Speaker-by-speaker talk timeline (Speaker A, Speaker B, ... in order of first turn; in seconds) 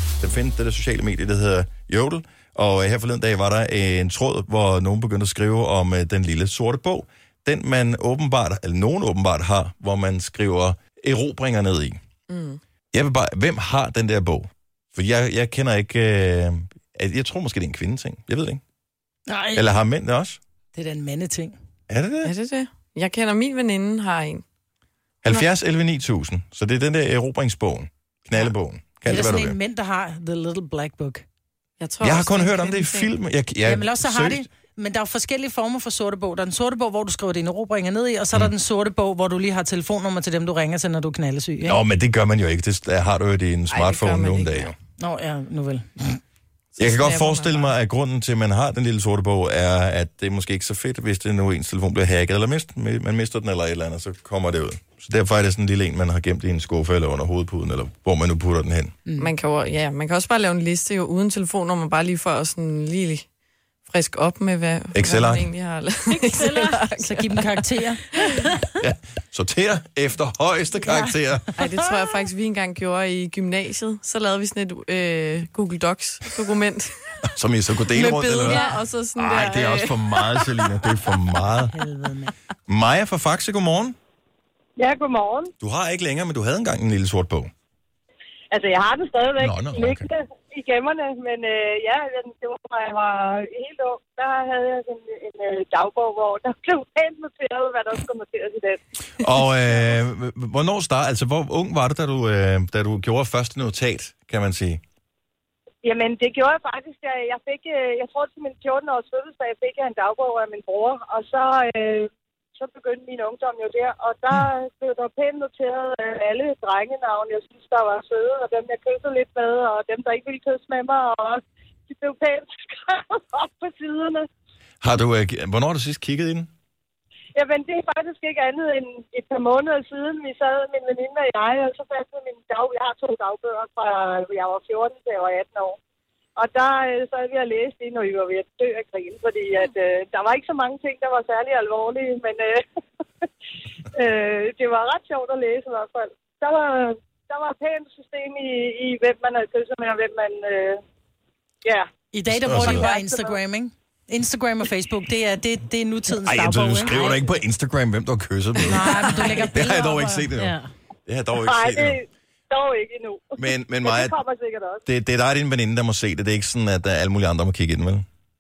Speaker A: 0.2-12.0, 12.9-18.6, 19.5-20.4, 21.9-22.3, 25.2-29.6, 32.0-34.5, 41.6-44.7, 46.8-58.9, 64.9-65.5, 68.8-71.5, 77.3-81.8, 82.7-84.0, 85.6-87.5, 89.4-90.1, 99.2-104.8, 124.8-126.5, 152.3-152.9, 156.2-162.0, 163.4-164.2, 164.9-168.1
Speaker B: 12.3-12.6, 22.2-24.4, 31.8-33.1, 43.7-44.7, 46.8-47.7, 59.2-63.3, 63.9-68.5, 71.6-77.2, 77.9-80.7
Speaker C: 19.3-19.6, 20.7-21.6, 29.1-31.2, 33.6-41.8, 45.0-46.2, 59.1-59.3, 66.2-68.5, 70.8-71.8, 81.7-82.3, 152.1-157.2, 158.6-160.7
Speaker D: 84.8-85.5, 88.5-98.8, 105.8-124.3, 127.3-135.8, 136.4-142.6, 143.9-150.8, 152.5-153.4, 161.4-164.8